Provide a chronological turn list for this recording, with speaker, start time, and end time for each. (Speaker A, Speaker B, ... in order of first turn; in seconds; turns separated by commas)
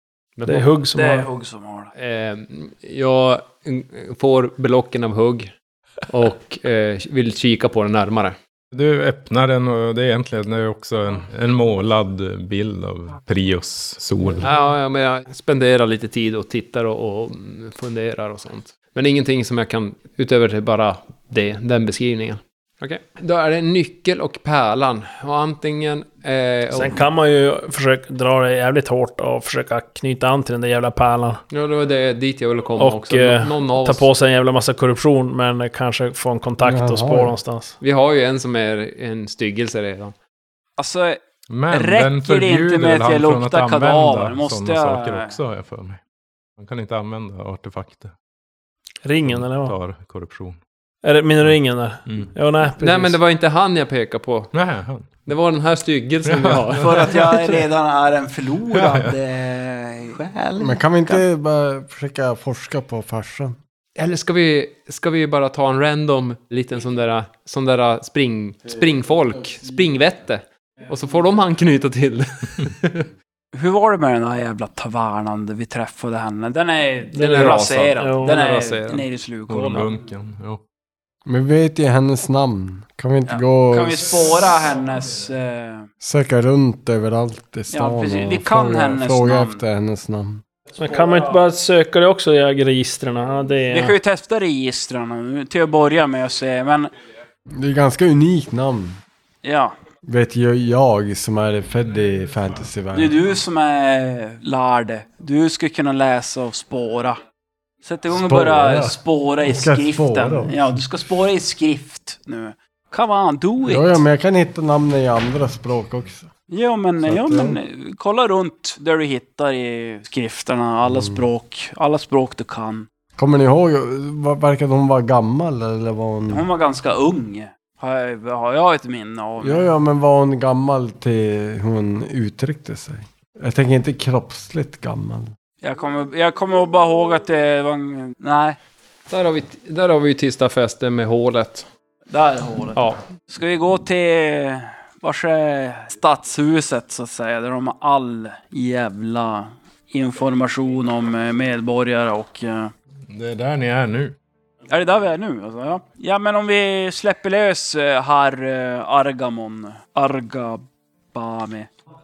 Speaker A: 0.4-0.7, Speaker B: 0.5-1.3, Speaker C: 0.9-1.9, Speaker A: 1.9-5.5, Speaker A: 6.1-8.4, Speaker D: 8.7-14.5, Speaker A: 14.4-27.0, Speaker B: 26.7-31.4, Speaker A: 31.5-34.1, Speaker B: 32.8-37.8, Speaker E: 36.6-37.4, Speaker A: 37.8-40.1, Speaker C: 40.8-41.2, Speaker D: 41.5-46.0, Speaker C: 41.7-45.4, Speaker D: 46.6-48.1, Speaker B: 49.0-49.8, Speaker D: 49.3-50.6, Speaker B: 51.0-53.2, Speaker A: 52.8-54.5, Speaker D: 54.5-55.1, Speaker A: 55.3-57.5, Speaker D: 56.2-57.3, Speaker C: 56.8-61.2, Speaker D: 58.7-59.2, Speaker E: 60.6-63.6, Speaker A: 64.0-73.1, Speaker C: 73.5-79.9, Speaker B: 77.1-78.5, Speaker A: 77.2-79.1, Speaker D: 79.5-80.6, Speaker E: 81.3-84.3, Speaker C: 83.3-85.9, Speaker E: 86.0-90.4, Speaker C: 87.7-89.6, Speaker B: 90.8-94.0, Speaker C: 90.8-91.4, Speaker C: 93.7-96.9, Speaker E: 97.5-99.0, Speaker C: 99.4-99.7, Speaker E: 100.0-103.2, Speaker C: 102.9-107.2, Speaker C: 107.8-114.0, Speaker E: 108.1-110.7, Speaker E: 113.7-116.3, Speaker C: 116.5-122.9, Speaker E: 117.0-117.6, Speaker E: 120.9-121.2, Speaker E: 123.2-126.5, Speaker C: 126.3-129.7, Speaker E: 129.4-135.3, Speaker C: 135.6-138.6, Speaker A: 139.1-141.7, Speaker C: 142.1-152.7, Speaker D: 153.1-154.2, Speaker C: 154.7-161.7